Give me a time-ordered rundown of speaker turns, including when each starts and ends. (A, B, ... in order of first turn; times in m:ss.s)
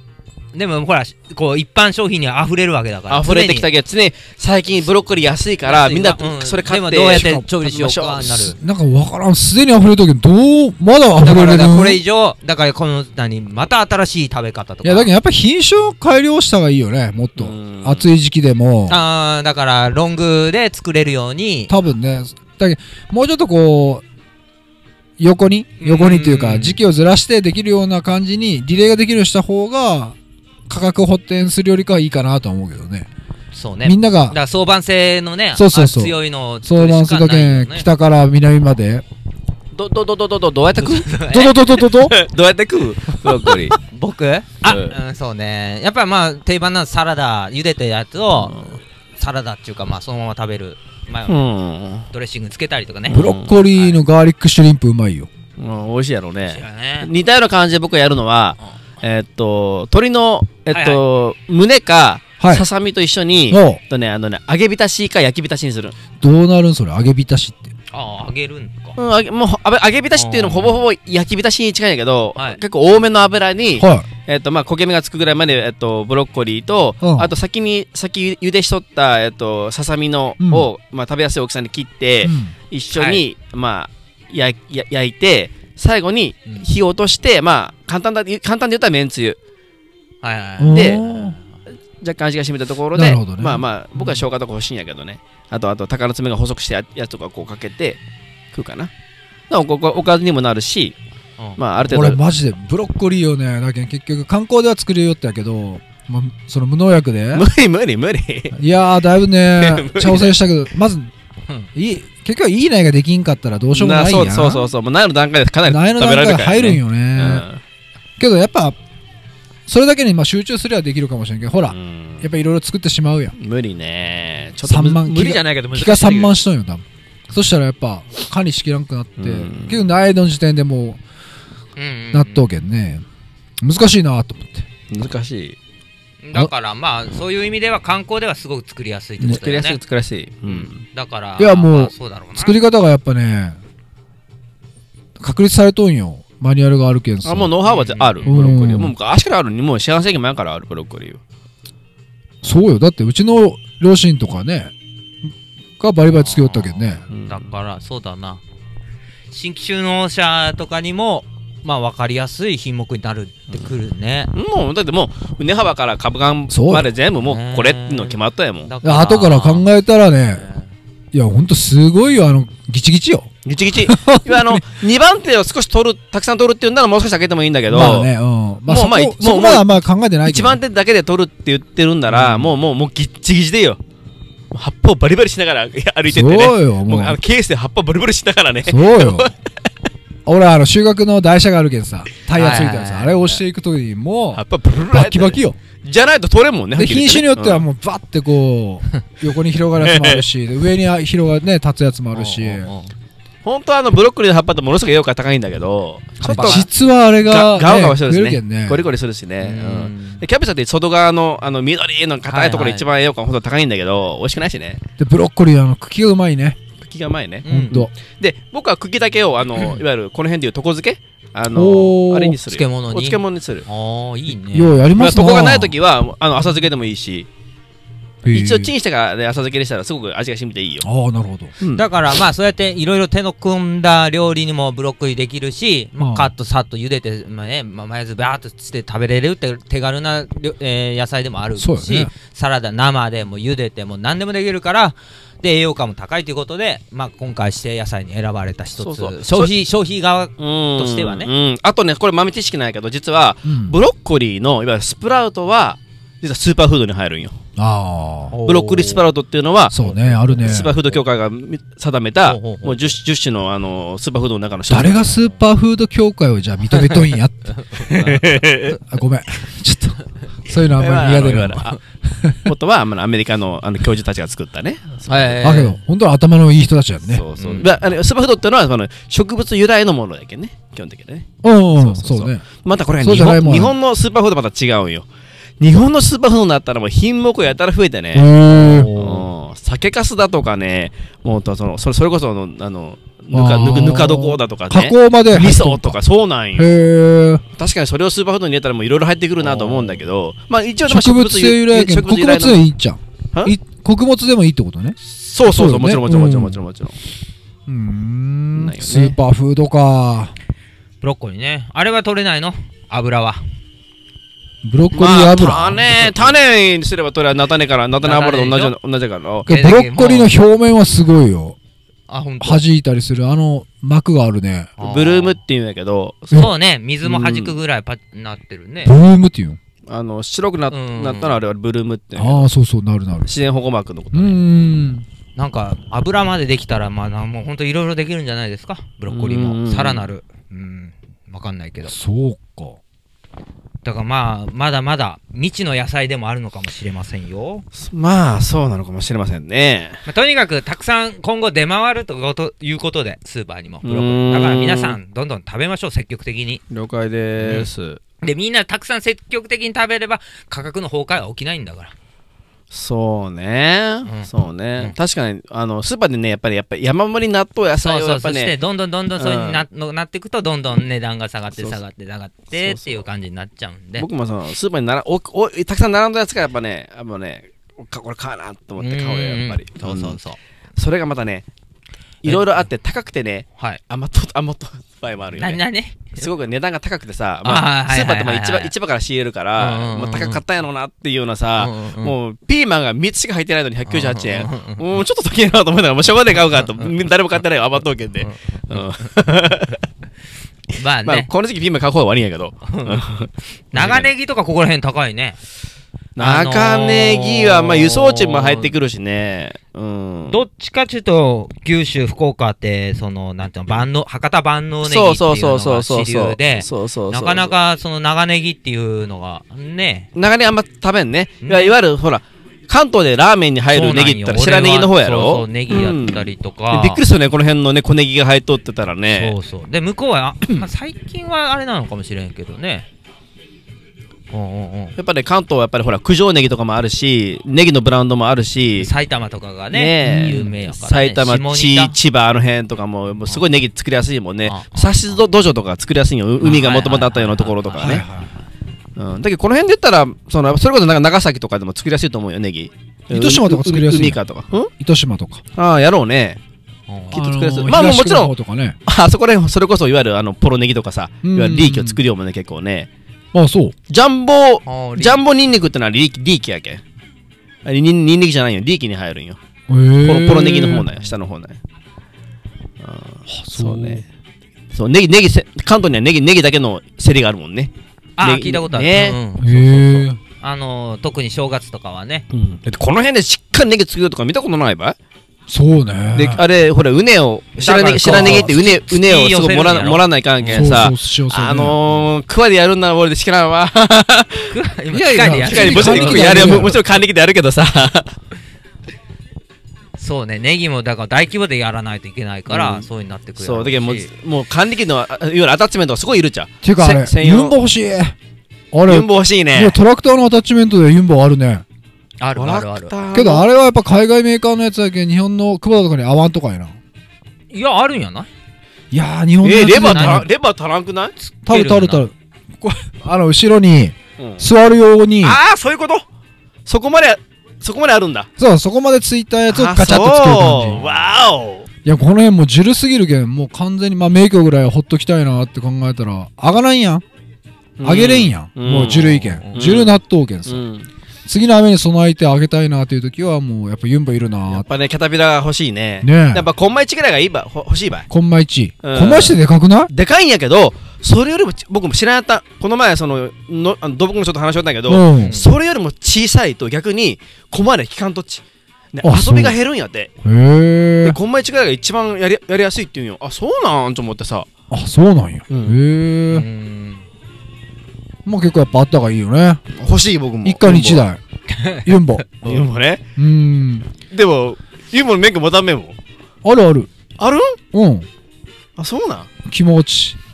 0:00.5-0:03.7 A
0:03.1-0:08.4 B
0:05.6-0:08.6 A
0:08.4-0:12.0 C
0:11.2-0:15.1 A
0:14.8-0:19.0 C
0:17.4-0:18.1 B
0:18.9-0:21.7 A
0:21.7-0:24.0 C
0:25.2-0:30.2 C
0:25.8-0:26.8 A
0:30.7-0:33.1 C
0:33.5-0:37.9 A
0:33.8-0:34.4 C
0:35.5-0:39.0 C
0:39.7-0:41.1 B
0:40.8-0:41.6 A
0:41.3-0:42.2 C
0:41.9-0:43.8 B
0:43.4-0:51.4 A
0:44.6-0:45.0 B
0:51.3-0:52.1 B
0:52.1-0:53.2 A
0:53.1-0:53.5 B
0:53.1-0:55.3 C
0:55.6-1:05.9 B
0:56.5-0:57.1 A
1:00.7-1:01.0 A
1:02.4-1:02.6 C
1:03.5-1:03.8 C
1:06.2-1:07.7 C
1:07.9-1:09.0 A
1:09.0-1:29.4 B
1:10.1-1:10.8 A
1:13.8-1:14.1 C
1:17.0-1:17.3 C
1:20.4-1:20.7 C
1:22.2-1:22.5 C
1:22.9-1:23.2 A
1:30.2-1:31.4 A
1:30.6-1:31.4 C
1:30.7-1:31.0 B
1:32.0-1:38.0 B
1:32.9-1:33.6 C
1:38.5-1:38.9 B
1:39.5-1:41.0 B
1:41.6-1:42.2 B
1:41.8-1:47.4 C
1:47.3-1:48.6 B
1:48.5-1:51.1 C
1:49.6-1:50.3 B
1:51.7-1:54.7 C
1:53.7-1:57.6 B
1:55.6-1:57.4 C
1:58.2-1:58.8 C
1:59.7-2:03.3 C
2:01.7-2:02.3 B
2:03.4-2:06.4 B
2:04.6-2:11.0 C
2:09.2-2:09.8 B
2:11.8-2:12.5 A
2:12.1-2:13.0 C
2:13.6-2:14.7 C
2:14.9-2:15.6 B
2:16.2-2:19.8 A
2:19.2-2:20.8 B
2:20.5-2:22.6 A
2:21.4-2:23.6 C
2:25.2-2:27.5 C
2:27.2-2:31.2 B
2:27.6-2:28.4 A
2:28.2-2:28.9 C
2:32.4-2:34.7 C
2:35.8-2:37.0 C
2:36.1-2:38.4 A
2:37.1-2:37.4 B
2:39.3-2:44.3 A
2:44.3-2:48.7 B
2:46.5-2:46.9 C
2:47.2-2:49.6 A
2:48.8-2:50.4 C
2:50.4-2:50.6 A
2:51.1-2:54.6 C
2:53.4-2:58.1 B
2:57.7-3:00.6 C
2:58.7-2:59.7 B
3:00.2-3:03.8 B
3:02.1-3:02.5 C
3:04.5-3:09.3 B
3:06.1-3:07.2 C
3:08.6-3:09.3 C
3:10.2-3:15.6 C
3:12.4-3:13.3 A
3:14.3-3:17.6 B
3:16.8-3:22.7 C
3:19.8-3:20.2 B
3:22.1-3:22.9 A
3:23.4-3:26.7 B
3:26.2-3:26.7 A
3:26.2-3:28.9 C
3:27.2-3:34.8 B
3:29.4-3:30.2 A
3:32.3-3:32.9 A
3:35.0-3:36.6 C
3:36.8-3:43.6 B
3:37.4-3:37.8 A
3:37.5-3:37.9 C
3:41.5-3:42.4 C
3:42.4-3:44.8 A
3:44.5-3:45.7 C
3:45.0-3:47.3 B
3:48.2-3:48.7 C
3:48.3-3:50.8 B
3:50.8-3:51.5 C
3:51.6-3:51.9 B
3:51.7-4:11.3 A
3:56.0-3:56.3 C
4:01.6-4:02.1 C
4:08.8-4:09.5 B
4:10.4-4:17.4 B
4:13.4-4:13.8 C
4:17.6-4:18.3 C
4:18.3-4:19.0 A
4:18.4-4:25.2 B
4:19.7-4:20.8 C
4:19.8-4:20.6 A
4:22.2-4:22.9 A
4:24.7-4:32.5 C
4:26.7-4:28.2 A
4:27.8-4:28.8 B
4:30.7-4:31.8 B
4:32.4-4:35.5 B
4:35.1-4:35.8 A
4:35.4-4:37.2 C
4:37.1-4:45.0 B
4:37.4-4:37.8 A
4:41.4-4:42.4 C
4:43.0-4:43.7 C
4:45.6-4:56.7 B
4:48.1-4:49.2 C
4:48.7-4:49.0 A
4:53.3-4:56.0 C
4:56.6-4:57.4 C
4:57.6-5:02.6 B
4:59.4-4:59.9 A
5:00.9-5:06.6 C
5:05.0-5:06.9 B
5:07.7-5:10.3 C
5:08.5-5:09.2 B
5:11.0-5:13.4 A
5:14.6-5:16.3 C
5:14.9-5:19.5 B
5:18.0-5:18.7 A
5:19.4-5:21.6 C
5:19.5-5:20.3 A
5:22.1-5:22.6 A
5:22.4-5:24.7 C
5:24.8-5:25.4 A
5:24.8-5:26.5 B
5:26.3-5:28.9 A
5:27.0-5:27.6 B
5:28.8-5:29.6 C
5:29.9-5:32.5 B
5:30.7-5:31.4 A
5:32.2-5:33.3 C
5:33.2-5:34.4 B
5:34.1-5:35.0 C
5:35.4-5:41.9 A
5:39.1-5:40.0 B
5:41.9-5:42.8 C
5:43.8-5:47.6 A
5:47.8-5:50.0 B
5:50.0-5:56.6 A
5:53.8-5:55.0 B
5:56.7-5:58.0 B
5:57.4-5:57.7 A
5:58.2-6:01.9 A
6:02.7-6:08.5 B
6:04.0-6:04.9 A
6:07.8-6:14.0 A
6:09.2-6:09.6 B
6:12.5-6:13.0 B
6:14.0-6:20.2 B
6:18.8-6:20.4 A
6:20.8-6:21.4 B
6:22.2-6:25.6 B
6:22.2-6:22.7 A
6:25.4-6:26.2 A
6:26.1-6:39.8 B
6:27.4-6:28.7 A
6:29.6-6:30.4 A
6:31.6-6:32.1 A
6:33.9-6:34.8 A
6:36.6-6:36.9 A
6:38.2-6:38.8 A
6:40.7-6:41.3 A
6:41.0-6:44.1 B
6:42.6-6:43.0 A
6:43.7-6:45.4 A
6:46.2-6:50.4 B
6:46.2-6:48.7 A
6:50.3-7:00.1 A
6:54.8-6:57.5 B
7:00.1-7:09.3 B
7:01.4-7:01.7 A
7:03.7-7:07.0 A
7:09.1-7:12.9 A
7:14.3-7:15.0 A
7:15.0-7:18.9 B
7:18.8-7:21.9 A
7:19.7-7:28.0 B
7:20.0-7:20.5 C
7:24.4-7:25.2 A
7:26.4-7:28.0 A
7:27.8-7:28.3 C
7:29.0-7:34.7 B
7:33.1-7:34.2 C
7:34.8-7:35.4 C
7:35.6-7:36.4 B
7:36.9-7:37.2 A
7:37.1-7:38.3 B
7:37.1-7:38.8 C
7:38.8-7:42.9 B
7:41.2-7:42.0 C
7:43.3-7:43.7 C
7:43.9-7:46.8 B
7:44.6-7:45.2 A
7:47.6-7:49.4 B
7:49.7-7:50.9 C
7:50.0-7:51.6 B
7:52.8-7:54.0 B
7:53.3-7:54.0 C
7:54.7-7:59.2 B
7:58.2-8:02.2 A
7:59.4-8:00.2 C
8:02.3-8:05.0 B
8:05.5-8:06.4 C
8:06.1-8:14.6 B
8:07.6-8:10.8 A
8:08.0-8:08.5 C
8:10.5-8:11.8 C
8:14.5-8:16.7 A
8:14.9-8:16.8 C
8:15.2-8:18.1 B
8:20.0-8:24.1 A
8:22.5-8:27.6 B
8:26.6-8:28.2 C
8:28.7-8:31.6 C
8:28.9-8:29.8 B
8:32.2-8:32.9 A
8:32.4-8:33.4 B
8:33.1-8:36.8 C
8:37.5-8:38.3 A
8:38.9-8:40.3 C
8:39.4-8:41.1 B
8:39.8-8:40.2 A
8:41.2-8:42.0 A
8:41.4-8:45.4 C
8:44.2-8:44.4 B
8:45.2-8:46.0 B
8:46.6-8:48.3 B
8:48.4-8:50.8 C
8:49.5-8:51.7 B
8:51.8-8:57.0 C
8:57.8-9:00.9 B
8:57.8-9:00.6 C
8:59.1-8:59.7 A
9:01.2-9:04.6 C
9:04.5-9:08.1 B
9:06.0-9:06.4 C
9:08.1-9:09.9 C
9:08.8-9:09.4 B
9:09.9-9:18.4 B
9:14.9-9:15.3 C
9:15.2-9:15.5 A
9:18.9-9:20.1 B
9:19.0-9:19.6 C
9:20.2-9:21.2 C
9:21.0-9:24.5 B
9:24.7-9:26.4 C
9:25.5-9:25.8 B
9:26.3-9:27.0 A
9:28.2-9:29.6 C
9:29.7-9:31.0 B
9:30.4-9:31.2 C
9:31.5-9:32.5 A
9:31.8-9:32.6 C
9:32.4-9:33.0 B
9:33.2-9:33.9 C
9:34.0-9:36.0 B
9:36.4-9:36.9 C
9:37.2-9:37.6 B
9:37.7-9:38.1 C
9:38.8-9:39.3 B
9:39.4-9:40.2 C